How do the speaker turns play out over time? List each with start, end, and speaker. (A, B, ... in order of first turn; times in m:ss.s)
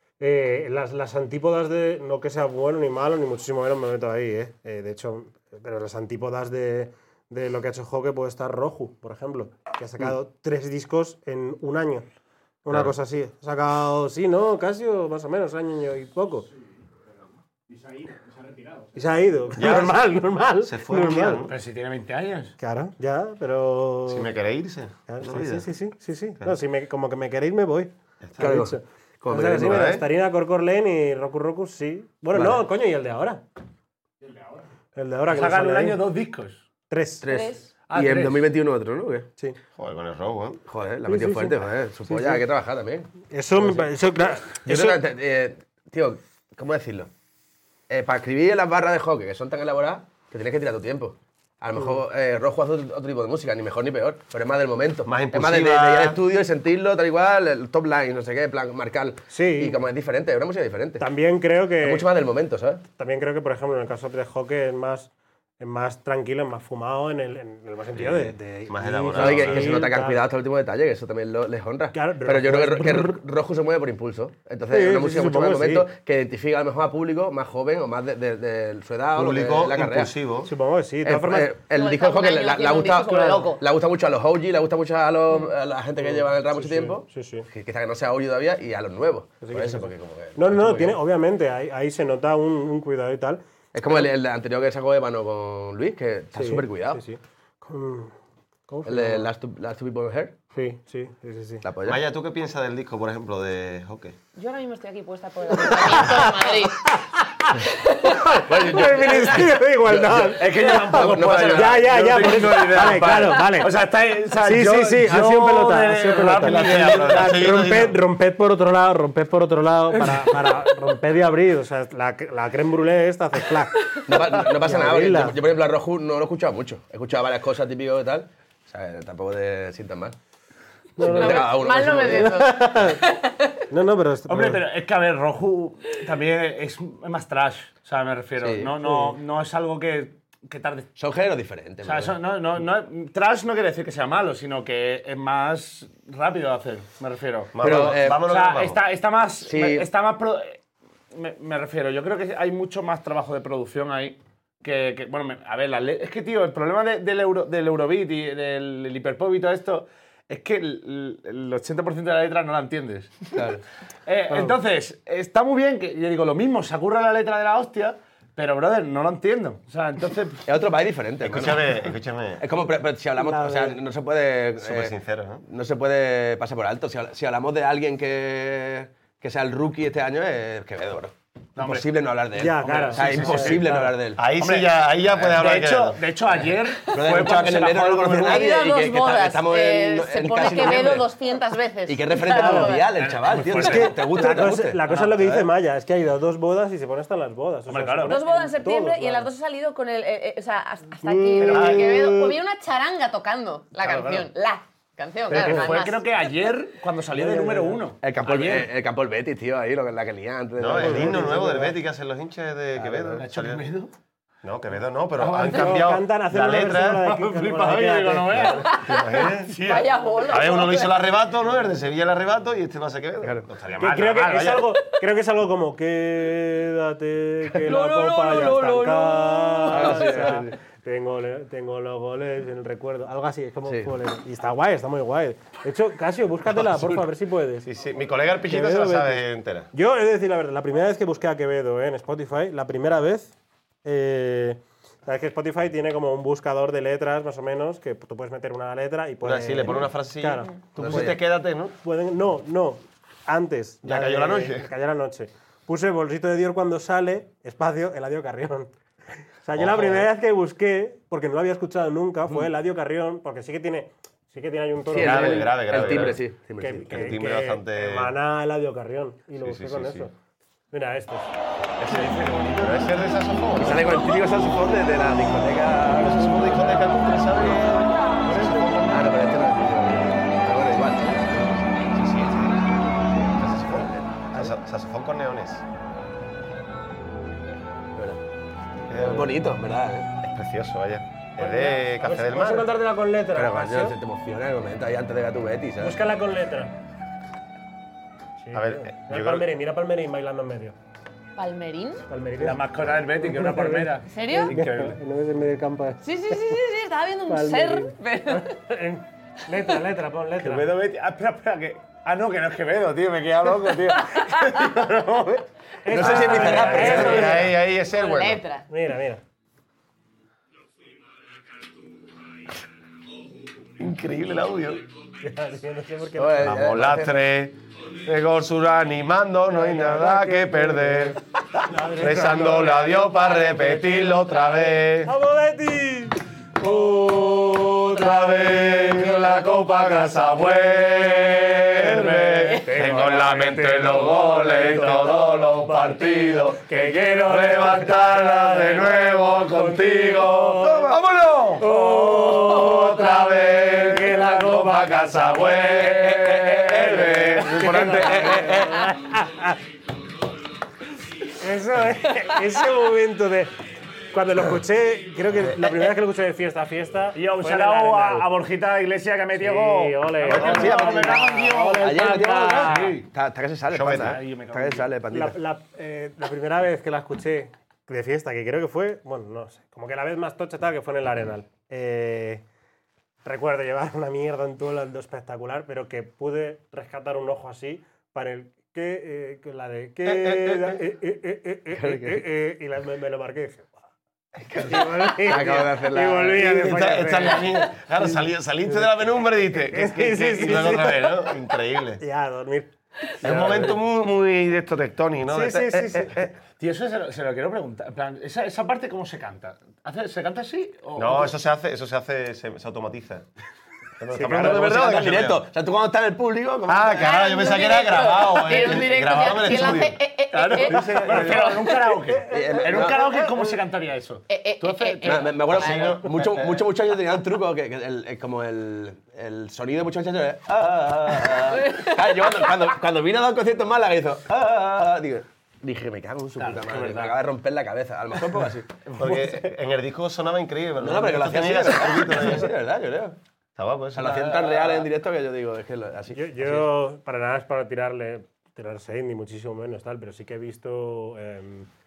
0:00.2-0:12.0 A
0:12.6-0:16.5 A
0:18.9-0:21.4 A
0:19.6-0:20.0 B
0:20.6-0:21.5 B
0:21.4-0:22.5 C
0:22.6-0:24.3 A
0:24.1-0:25.7 B
0:25.1-0:33.4 A
0:28.2-0:28.5 B
0:28.4-0:30.0 D
0:29.5-0:30.0 B
0:32.3-0:32.6 D
0:35.0-0:36.0 A
0:35.3-0:36.6 C
0:36.9-0:37.2 A
0:37.2-0:39.3 D
0:37.3-0:37.6 E
0:37.9-0:38.5 C
0:39.8-0:40.6 B
0:40.7-0:43.9 D
0:41.1-0:42.4 A
0:43.3-0:45.0 A
0:44.5-0:47.1 D
0:47.9-1:01.0 D
0:55.0-0:56.2 B
0:59.3-0:59.8 A
1:01.0-1:02.0 A
1:01.8-1:02.8 D
1:03.0-1:05.1 A
1:05.6-1:10.2 A
1:08.0-1:09.8 B
1:09.1-1:20.1 D
1:11.9-1:13.2 A
1:14.7-1:15.9 A
1:19.1-1:20.5 B
1:20.4-1:21.5 A
1:21.0-1:31.0 D
1:21.7-1:23.6 E
1:26.0-1:27.5 A
1:29.4-1:33.4 A
1:33.7-1:37.0 D
1:36.3-1:38.1 A
1:38.7-1:39.3 A
1:38.8-1:40.3 D
1:40.5-1:41.6 A
1:41.6-1:42.0 D
1:41.8-1:44.1 B
1:44.4-1:46.9 E
1:45.6-1:53.7 A
1:48.5-1:52.6 D
1:50.3-1:57.4 C
1:54.4-2:05.4 A
1:56.6-1:58.0 B
2:04.1-2:10.1 D
2:11.0-2:13.0 A
2:11.0-2:12.5 D
2:11.0-2:13.6 E
2:13.7-2:14.6 A
2:14.3-2:20.9 C
2:18.4-2:18.7 D
2:18.8-2:19.1 A
2:21.0-2:22.2 D
2:21.8-2:30.6 C
2:27.5-2:28.8 B
2:27.6-2:28.2 D
2:29.4-2:29.9 D
2:31.1-2:43.4 C
2:43.3-2:43.6 D
2:44.0-2:50.4 C
2:44.3-2:44.5 A
2:50.4-2:51.8 D
2:51.2-2:52.4 B
2:52.4-2:54.9 D
2:53.2-2:53.8 A
2:54.6-2:55.4 B
2:55.5-3:04.3 D
3:01.6-3:01.8 C
3:02.4-3:03.9 A
3:02.6-3:03.7 C
3:04.2-3:06.0 B
3:04.3-3:08.5 C
3:06.9-3:11.1 D
3:08.2-3:12.9 E
3:11.9-3:15.5 D
3:12.3-3:12.8 A
3:12.9-3:14.1 C
3:13.5-3:19.3 A
3:17.7-3:18.2 C
3:18.1-3:26.0 E
3:21.0-3:22.2 A
3:21.4-3:21.8 C
3:21.4-3:22.1 B
3:23.8-3:24.2 C
3:25.3-3:28.7 C
3:25.3-3:25.6 A
3:27.2-3:27.8 A
3:28.0-3:31.7 D
3:30.6-3:33.6 B
3:30.7-3:31.7 A
3:32.8-3:33.9 C
3:32.8-3:33.2 D
3:34.4-3:37.1 B
3:35.2-3:35.9 C
3:35.4-3:38.6 A
3:36.9-3:40.0 C
3:38.3-3:39.6 B
3:38.6-3:41.0 E
3:40.2-3:44.7 B
3:43.8-3:44.6 C
3:43.8-3:57.7 A
3:47.7-3:50.1 E
3:49.7-3:50.5 D
3:53.6-3:53.9 D
3:57.6-3:59.7 B
3:58.5-4:03.3 A
4:03.8-4:11.2 A
4:09.2-4:11.7 B
4:10.8-4:11.2 D
4:11.8-4:18.7 A
4:13.8-4:14.7 B
4:19.4-4:25.9 A
4:19.6-4:20.1 B
4:24.9-4:27.2 D
4:24.9-4:26.2 B
4:26.6-4:30.1 A
4:26.9-4:28.1 B
4:29.4-4:30.1 B
4:30.7-4:31.3 A
4:31.8-4:34.0 B
4:31.9-4:33.2 C
4:33.6-4:36.7 D
4:35.9-4:39.3 B
4:38.2-4:38.8 A
4:38.9-4:41.6 D
4:41.0-4:45.6 B
4:43.2-4:44.4 D
4:48.0-4:48.2 D
4:48.9-4:49.4 B
4:49.0-4:50.1 D
4:50.2-4:52.7 B
4:51.4-4:54.0 A
4:53.3-4:56.0 D
4:55.8-4:56.7 A
4:58.4-5:00.8 A
4:58.5-4:59.5 B
5:01.4-5:02.0 E
5:02.1-5:02.6 A
5:02.4-5:05.0 C
5:03.2-5:04.0 A
5:04.1-5:04.5 E
5:04.5-5:06.6 A
5:06.0-5:08.6 E
5:07.3-5:10.7 A
5:10.4-5:15.4 C
5:15.8-5:17.6 A
5:15.9-5:17.4 D
5:16.0-5:17.4 C
5:16.7-5:18.4 B
5:17.3-5:18.6 E
5:18.7-5:19.2 A
5:23.8-5:24.8 B
5:25.2-5:26.5 A
5:26.2-5:27.1 D
5:26.4-5:35.1 B
5:29.5-5:33.1 A
5:35.0-5:37.0 A
5:36.6-5:58.9 B
5:38.8-5:39.2 A
5:41.7-5:45.2 A
5:46.6-5:50.9 A
5:51.6-5:53.1 A
5:53.9-5:54.7 A
5:56.6-5:59.6 A
6:01.3-6:03.5 A
6:04.1-6:08.3 A
6:05.4-6:05.7 B
6:07.1-6:13.1 C
6:09.4-6:12.8 A
6:10.3-6:10.8 B
6:10.3-6:15.4 D
6:13.7-6:14.2 B
6:13.8-6:14.9 C
6:15.1-6:22.4 A
6:23.2-6:33.7 A
6:30.0-6:30.8 B
6:31.8-6:32.2 D
6:34.5-6:36.8 D
6:34.6-6:38.2 A
6:36.4-6:42.0 B
6:39.5-6:41.3 A
6:42.0-6:43.1 A
6:43.2-6:43.8 D
6:43.2-6:46.3 B
6:45.3-6:46.3 A
6:46.6-6:51.3 C
6:50.9-6:53.3 B
6:54.0-6:55.4 B
6:54.1-6:54.6 A
6:54.2-6:57.3 D
6:56.7-7:00.0 B
6:57.0-7:01.8 E
7:00.3-7:05.3 C
7:00.6-7:01.6 B
7:02.2-7:03.2 A
7:02.2-7:03.2 D
7:04.3-7:06.0 E
7:05.0-7:18.8 D
7:05.5-7:06.6 B
7:11.7-7:12.1 E
7:16.4-7:17.2 C
7:18.9-7:22.5 B
7:19.0-7:19.4 A
7:20.8-7:23.2 D
7:23.6-7:24.6 B
7:23.9-7:26.6 D
7:26.1-7:31.7 A